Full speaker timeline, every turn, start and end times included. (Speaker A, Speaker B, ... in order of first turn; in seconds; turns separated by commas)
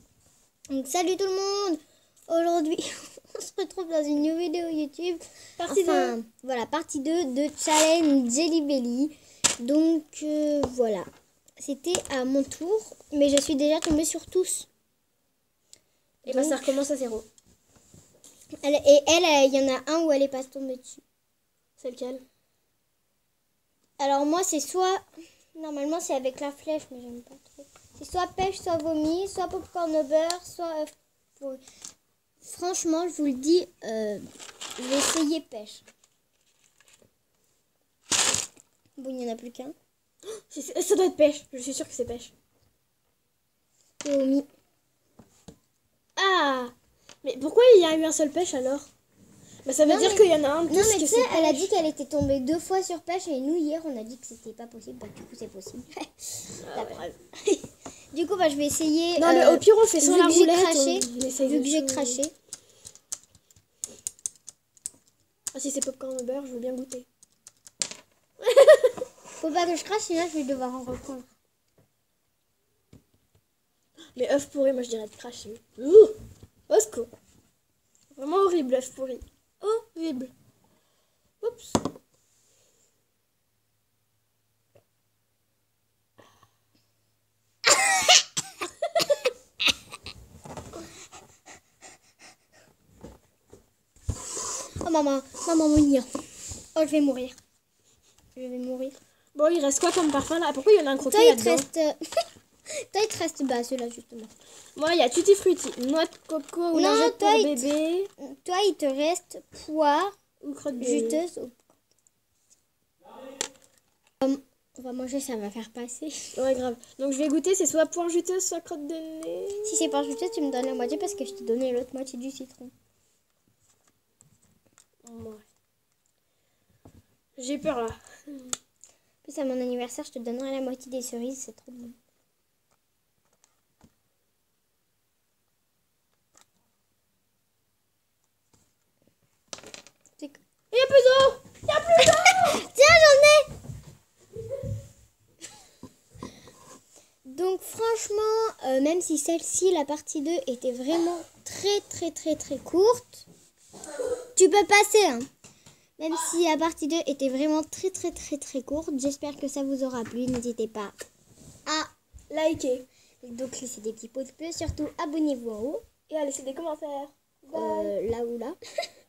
Speaker A: 0.7-11.1, Speaker B: 5.6-6.1, Speaker A: 11.6-14.7, Speaker A: 16.2-16.6, Speaker B: 16.2-17.3, Speaker A: 18.6-21.0, Speaker B: 21.8-22.2, Speaker A: 24.0-25.0, Speaker A: 25.5-31.6, Speaker A: 32.4-34.2, Speaker A: 34.8-35.8, Speaker A: 39.0-39.7, Speaker B: 40.3-42.3, Speaker A: 44.0-44.5, Speaker B: 46.1-48.9, Speaker B: 49.6-51.7, Speaker A: 49.8-62.3, Speaker B: 56.6-57.0, Speaker B: 59.2-62.2, Speaker B: 65.5-67.1, Speaker B: 68.4-68.9, Speaker A: 69.4-71.3, Speaker B: 74.1-76.2, Speaker B: 76.7-77.1, Speaker B: 78.1-80.3, Speaker B: 81.4-81.8, Speaker A: 94.8-96.1, Speaker A: 96.6-97.3, Speaker A: 98.3-99.0, Speaker B: 99.3-101.7, Speaker A: 101.0-102.0, Speaker A: 102.9-104.3, Speaker B: 104.8-108.1, Speaker A: 106.7-110.2, Speaker B: 110.4-111.2, Speaker A: 110.8-111.7, Speaker A: 114.2-116.3, Speaker B: 116.3-119.8, Speaker A: 119.6-122.7, Speaker B: 125.0-125.4, Speaker B: 127.4-128.5, Speaker A: 129.2-131.9, Speaker B: 140.7-142.6, Speaker A: 142.5-143.5, Speaker A: 147.2-153.3, Speaker A: 154.3-155.3, Speaker A: 156.0-160.9, Speaker A: 161.7-161.9, Speaker B: 162.3-162.8, Speaker A: 163.2-165.8, Speaker B: 166.1-167.9, Speaker A: 167.5-168.6